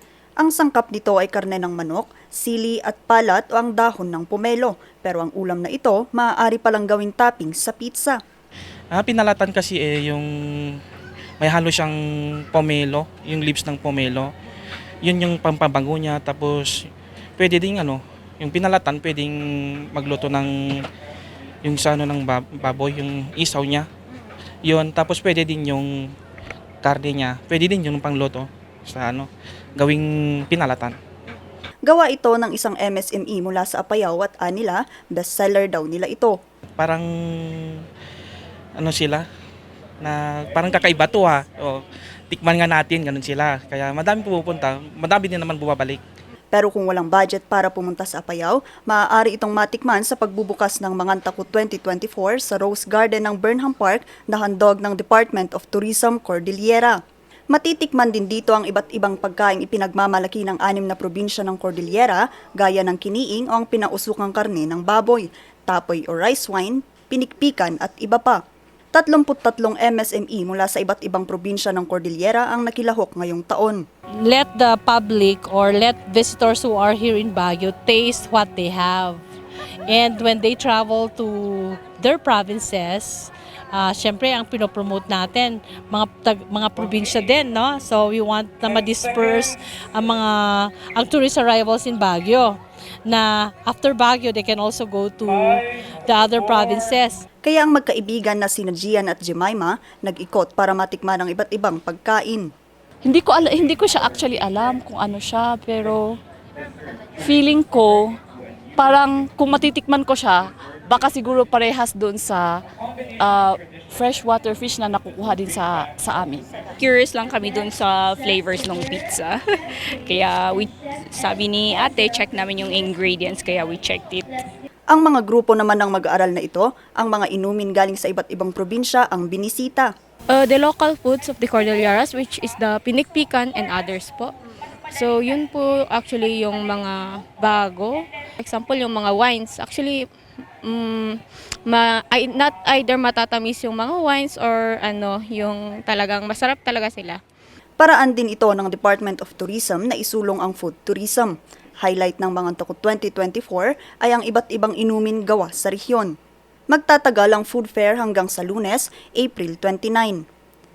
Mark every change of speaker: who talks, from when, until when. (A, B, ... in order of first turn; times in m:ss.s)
0:00.4-0:08.2 A
0:08.9-0:10.8 B
0:11.4-0:14.3 B
0:15.0-0:20.8 B
0:21.6-0:23.9 B
0:24.6-0:26.1 B
0:26.8-0:31.0 B
0:31.8-0:36.4 A
0:36.8-0:37.8 B
0:38.8-0:39.3 B
0:40.0-0:46.0 B
0:46.5-0:57.0 A
0:57.5-1:08.4 A
1:08.9-1:13.8 A
1:14.2-1:19.2 C
1:19.9-1:37.2 C
1:37.4-1:42.5 A
1:43.0-1:46.2 D
1:47.2-1:48.2 D
1:48.8-1:52.6 D
1:53.2-1:56.5 D
1:56.8-2:04.2 E
2:04.9-2:09.9 A
2:10.3-2:14.3 F
2:14.9-2:20.0 F
2:20.6-2:27.2 F
2:27.8-2:36.1 A
2:36.7-2:40.3 A